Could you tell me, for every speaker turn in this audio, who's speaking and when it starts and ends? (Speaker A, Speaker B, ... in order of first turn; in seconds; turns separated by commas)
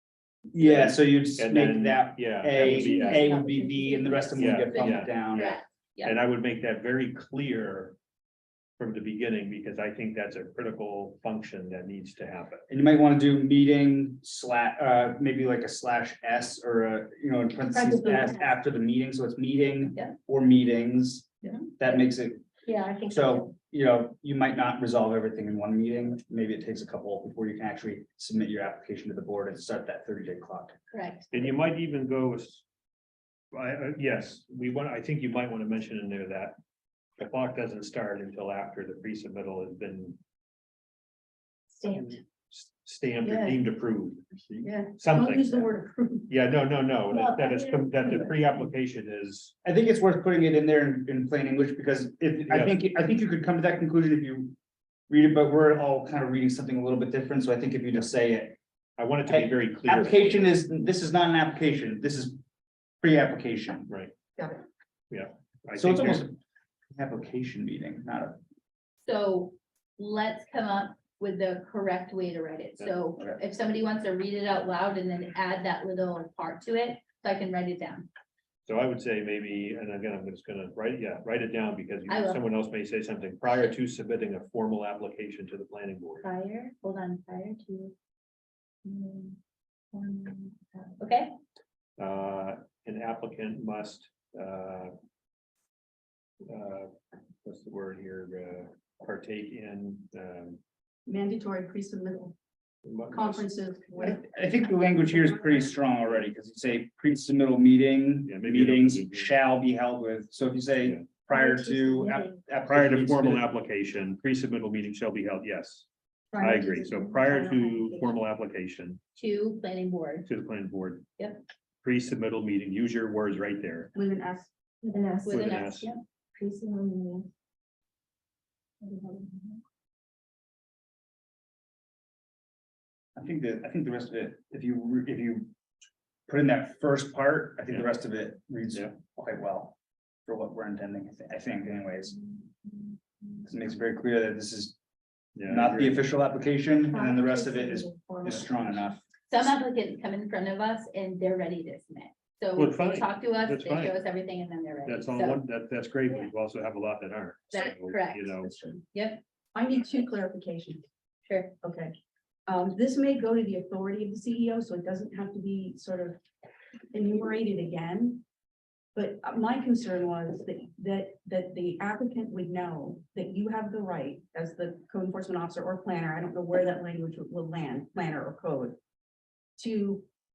Speaker A: 0.5-5.5, Speaker B: 0.6-3.4, Speaker C: 2.6-6.2, Speaker B: 4.3-8.0, Speaker B: 8.8-12.6, Speaker A: 12.7-22.4, Speaker D: 17.7-18.3, Speaker C: 21.4-22.0, Speaker C: 22.6-23.5, Speaker A: 23.1-30.8, Speaker C: 30.9-31.3, Speaker B: 31.3-32.6, Speaker B: 33.5-36.6, Speaker B: 37.2-40.2, Speaker C: 41.7-42.1, Speaker B: 42.5-45.7, Speaker D: 43.2-43.6, Speaker D: 44.6-46.3, Speaker B: 46.3-49.5, Speaker C: 47.1-48.1, Speaker A: 49.6-54.5, Speaker B: 52.5-52.8, Speaker A: 55.1-58.6, Speaker B: 59.0-60.6, Speaker A: 59.3-62.4, Speaker A: 63.0-63.9, Speaker B: 63.9-64.1, Speaker D: 64.4-64.6, Speaker B: 65.1-66.2, Speaker A: 65.7-66.4, Speaker A: 66.9-68.4, Speaker C: 69.0-78.1, Speaker B: 78.6-86.3, Speaker C: 82.1-82.4, Speaker C: 86.2-87.9, Speaker C: 88.8-89.4, Speaker C: 89.9-91.3, Speaker B: 92.0-94.9, Speaker B: 96.5-100.6, Speaker D: 101.0-102.3, Speaker B: 102.8-103.5, Speaker D: 103.1-104.4, Speaker A: 104.0-113.5, Speaker B: 108.2-109.3, Speaker E: 111.3-112.3, Speaker B: 112.7-115.9, Speaker D: 116.3-118.1, Speaker B: 116.4-119.0, Speaker E: 116.4-117.8, Speaker C: 119.1-120.3, Speaker B: 120.2-121.0, Speaker B: 121.8-123.9, Speaker D: 123.9-124.5, Speaker E: 124.8-125.4, Speaker C: 125.2-126.0, Speaker B: 125.3-125.9, Speaker E: 126.3-127.3, Speaker E: 128.8-129.6, Speaker A: 133.2-135.5, Speaker A: 136.3-139.8, Speaker A: 140.3-142.1, Speaker E: 142.4-143.4, Speaker A: 143.4-144.8, Speaker B: 145.3-146.0, Speaker A: 145.5-149.0, Speaker E: 146.9-148.6, Speaker C: 149.3-155.4, Speaker B: 152.6-154.0, Speaker B: 154.8-158.5, Speaker C: 157.5-158.4, Speaker D: 158.4-158.8, Speaker C: 158.9-159.2, Speaker D: 159.5-160.8, Speaker C: 161.3-161.5, Speaker D: 161.6-161.9, Speaker D: 162.5-166.2, Speaker D: 166.9-168.2, Speaker D: 168.9-178.8, Speaker D: 179.6-180.1